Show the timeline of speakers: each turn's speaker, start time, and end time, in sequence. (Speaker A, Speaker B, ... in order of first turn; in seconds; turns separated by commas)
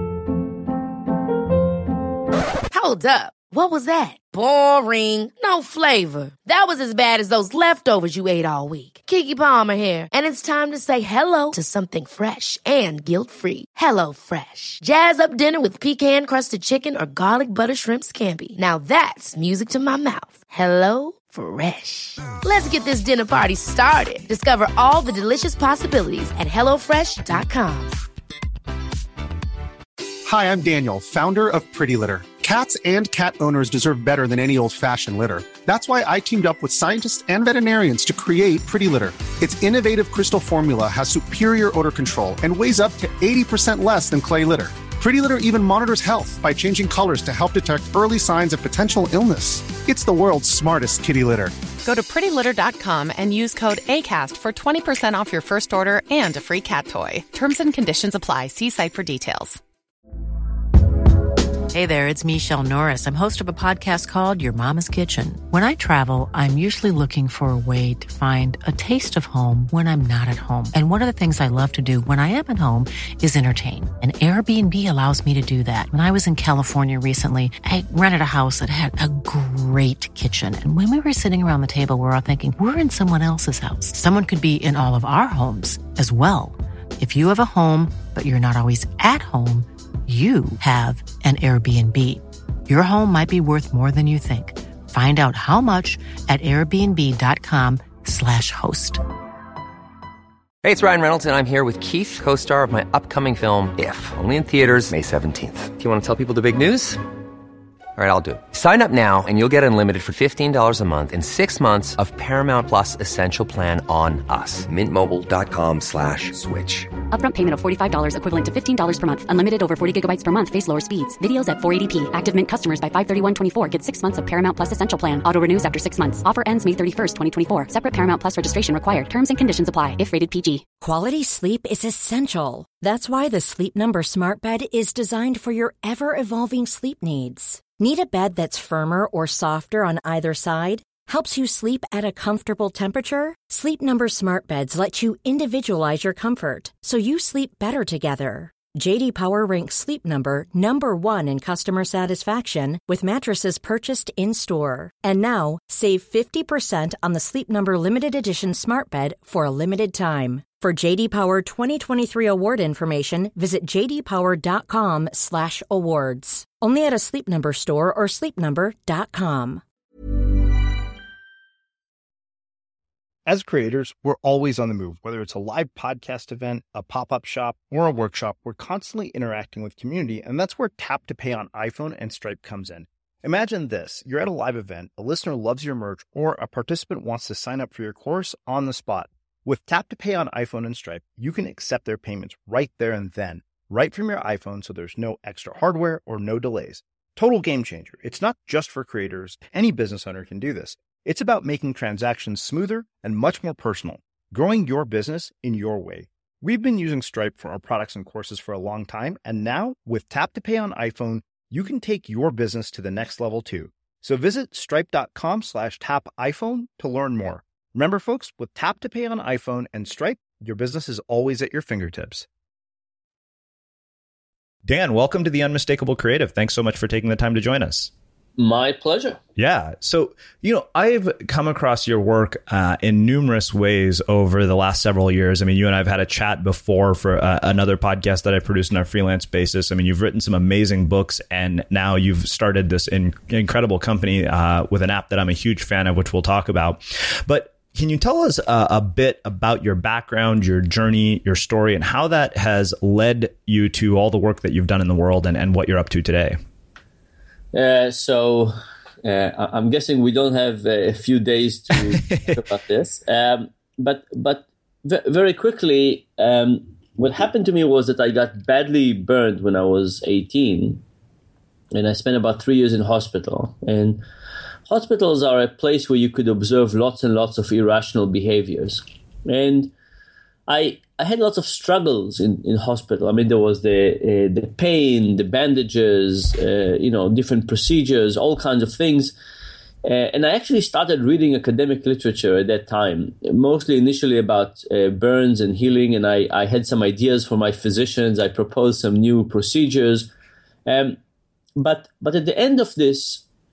Speaker A: 2.7-27.9, Speaker B: 30.2-51.5, Speaker C: 51.8-59.6, Speaker D: 61.7-99.0, Speaker E: 100.6-107.0, Speaker E: 108.0-117.0, Speaker F: 117.1-130.6, Speaker G: 130.8-169.6, Speaker H: 173.2-222.2, Speaker H: 224.7-227.9, Speaker I: 228.4-229.2, Speaker H: 229.4-256.4, Speaker I: 257.5-270.8, Speaker H: 262.1-262.3, Speaker I: 271.7-274.0, Speaker I: 274.7-279.7, Speaker I: 280.5-289.1, Speaker I: 289.8-300.1, Speaker I: 300.6-301.0, Speaker I: 301.6-303.2